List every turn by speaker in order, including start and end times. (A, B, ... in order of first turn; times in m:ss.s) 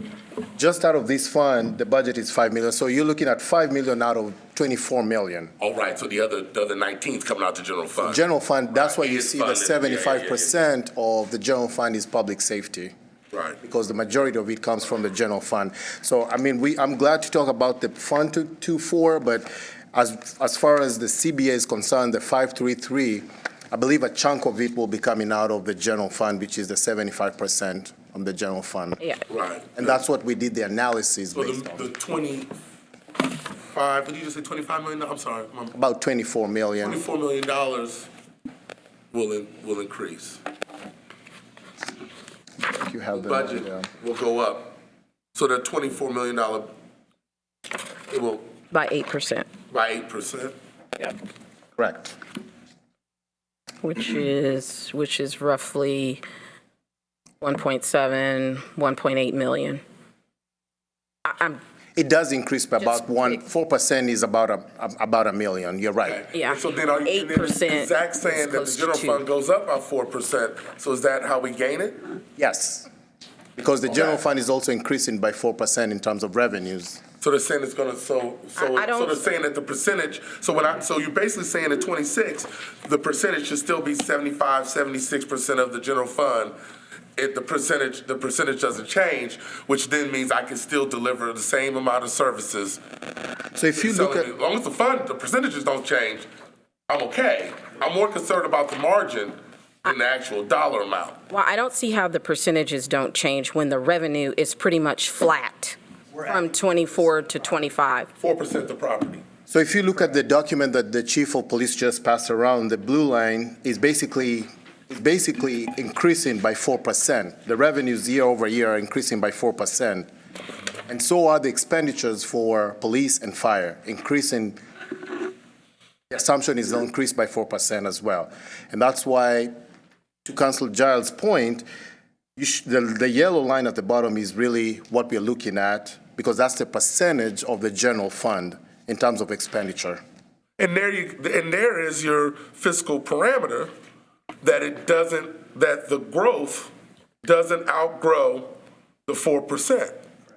0:00.6-0:05.5 A
0:05.6-0:08.2 B
0:08.0-0:12.9 A
0:08.7-0:10.5 B
0:13.3-0:13.6 B
0:13.6-0:29.0 A
0:29.3-0:30.0 B
0:29.8-0:31.9 A
0:31.3-0:32.5 B
0:33.7-0:35.7 B
0:35.7-0:37.0 A
0:36.8-0:38.1 B
0:39.1-0:40.4 B
0:42.6-0:43.9 A
0:43.1-0:44.8 B
0:45.3-0:46.7 B
0:48.1-0:48.5 B
0:48.7-0:49.5 C
0:49.7-0:50.5 B
0:51.8-0:52.2 A
0:53.8-0:56.2 C
0:57.4-0:59.8 C
1:01.2-1:01.6 C
1:02.0-1:06.2 A
1:02.8-1:03.4 C
1:06.0-1:12.0 B
1:06.3-1:09.2 C
1:12.4-1:12.9 A
1:13.6-1:17.0 A
1:17.2-1:26.6 B
1:18.6-1:19.2 C
1:27.2-1:32.8 B
1:33.6-1:34.3 A
1:33.8-1:36.3 B
1:36.9-1:41.2 B
1:41.3-1:48.1 C
1:48.2-1:49.2 B
1:49.5-2:00.1 A
2:00.9-2:04.6 A
2:06.1-2:09.5 A
2:10.2-2:11.7 A
2:12.4-2:20.0 A
2:20.6-2:23.7 B
2:24.4-2:26.7 B
2:27.2-2:28.5 B
2:29.1-2:29.9 B